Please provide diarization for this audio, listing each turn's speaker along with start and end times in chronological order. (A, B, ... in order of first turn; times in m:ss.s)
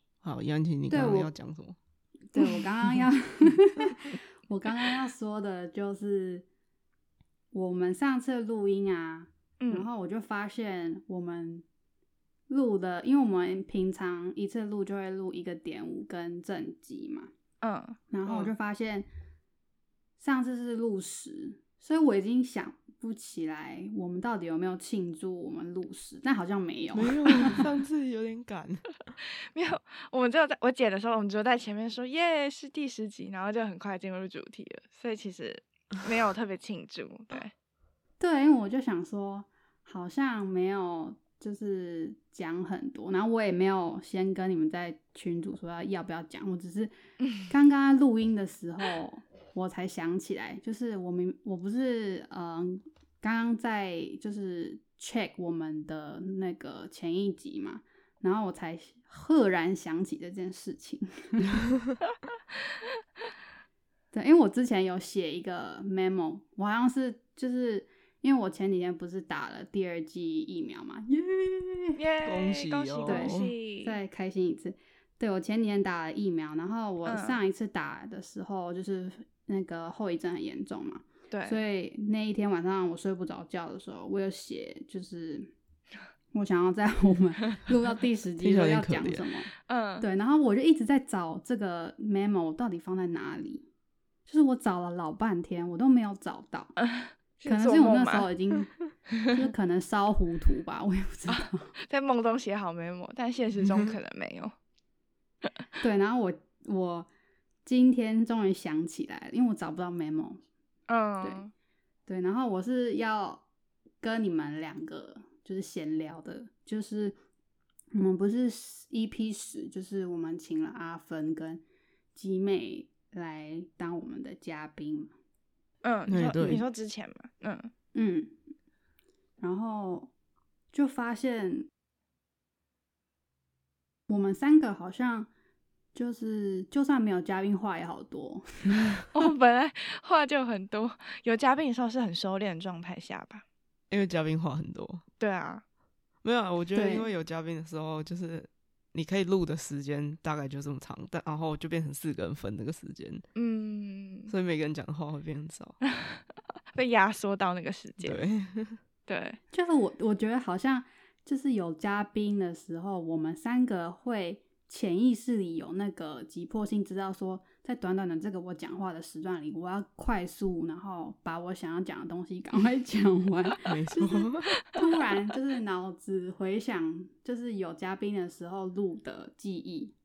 0:00.2-0:01.8 A
0:00.9-0:01.3 B
0:02.4-0:06.5 B
0:07.5-0:11.6 B
0:09.6-0:09.9 C
0:12.5-0:17.3 B
0:17.6-0:18.0 C
0:18.1-0:19.1 B
0:18.2-0:18.5 A
0:20.2-0:27.7 B
0:26.9-0:28.9 A
0:29.5-0:37.5 C
0:38.2-0:46.9 B
0:47.2-0:47.5 C
0:47.5-1:01.5 B
1:04.1-1:12.0 B
1:12.0-1:14.0 C
1:12.2-1:13.5 A
1:13.0-1:25.5 B
1:17.0-1:17.4 C
1:21.3-1:21.6 C
1:26.3-1:33.6 B
1:28.4-1:29.2 A
1:29.7-1:30.1 C
1:34.3-1:36.8 B
1:36.8-1:38.3 C
1:37.4-1:38.7 B
1:39.3-1:41.7 B
1:41.3-1:44.5 C
1:45.8-1:47.1 B
1:47.7-1:50.4 B
1:50.9-1:51.5 C
1:52.1-1:53.4 B
1:54.0-1:57.2 B
1:57.9-2:01.6 B
2:02.2-2:05.1 B
2:05.8-2:07.7 C
2:06.1-2:06.6 A
2:08.0-2:08.4 B
2:09.4-2:10.1 B
2:10.7-2:11.7 B
2:14.1-2:15.3 B
2:16.0-2:18.7 B
2:19.1-2:23.4 C
2:23.9-2:25.0 A
2:25.2-2:25.6 C
2:26.2-2:33.2 A
2:26.7-2:27.1 B
2:33.3-2:34.3 C
2:34.3-2:35.8 A
2:35.9-2:38.2 C
2:38.0-2:38.8 A
2:39.1-2:39.4 C
2:39.5-2:59.9 B
2:53.7-2:54.6 A